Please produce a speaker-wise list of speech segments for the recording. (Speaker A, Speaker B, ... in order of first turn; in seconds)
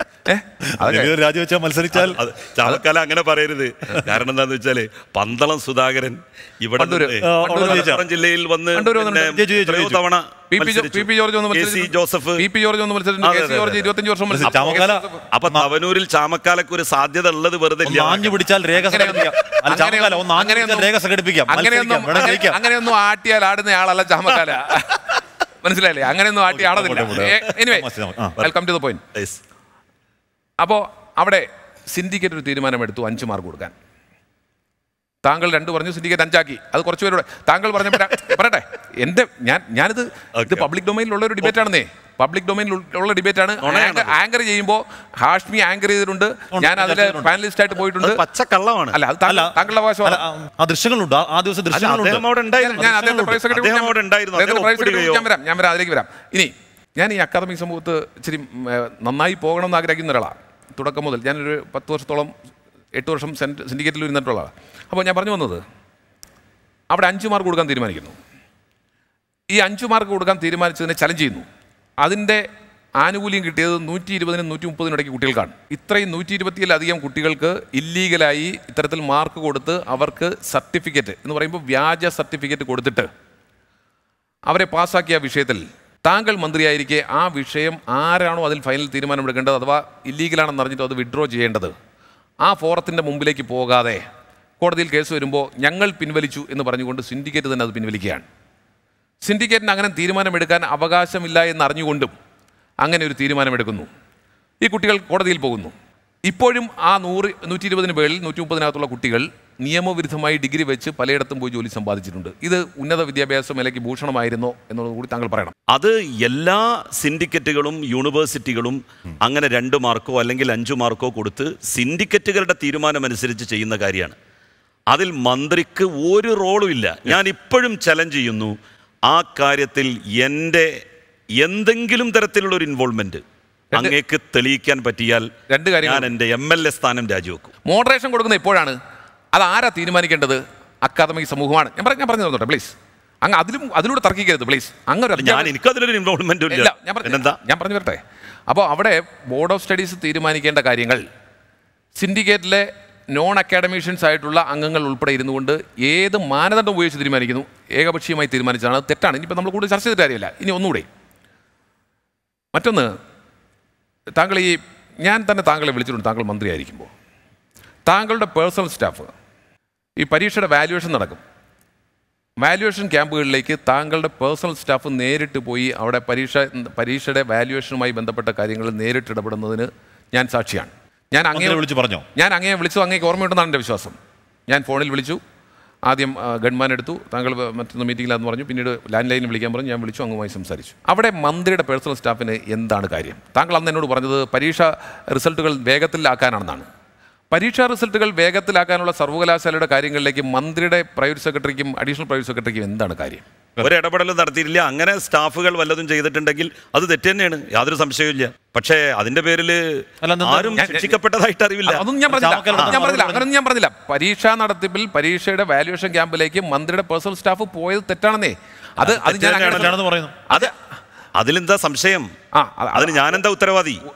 Speaker A: 0.3-1.1, 6.8-7.9, 8.8-9.3, 10.5-15.2, 18.9-20.9, 21.5-25.1, 25.6-27.9, 28.4-29.0, 30.6-33.7, 35.2-48.2, 48.9-50.2, 52.6-62.3, 62.9-65.6, 66.9-68.1, 69.5-71.4, 72.0-72.4, 73.0-83.1, 84.5-91.7, 92.4-94.0, 94.6-98.2, 99.2-102.1, 102.8-103.9, 104.6-105.7, 106.2-115.5, 135.5-136.1, 137.7-138.8, 139.3-145.5, 146.5-151.0, 151.9-160.9, 162.5-162.9, 164.2-166.9, 167.9-169.1, 170.0-171.2, 172.4-181.6, 182.2-184.0, 184.5-185.2, 185.8-196.7, 197.3-203.2, 210.6-210.9, 211.7-219.7, 222.3-223.2
Speaker B: 0.8-2.2, 7.2-8.0, 9.2-10.0, 14.3-15.7, 17.8-22.6, 26.5-28.4, 46.5-47.3, 49.3-52.2, 52.8-53.0, 181.3-182.0, 210.0-210.7, 212.1-213.3, 219.0-220.4
Speaker C: 1.9-12.4, 13.2-13.9, 15.3-18.4, 29.1-29.4, 40.4-40.6, 43.6-44.1, 48.0-49.0, 51.7-55.2, 115.7-124.1, 124.9-128.5, 129.1-130.7, 131.4-133.2, 133.7-135.3, 135.8-137.5, 145.2-147.4, 203.6-211.8, 218.9-219.7, 221.2-222.1, 222.8-223.8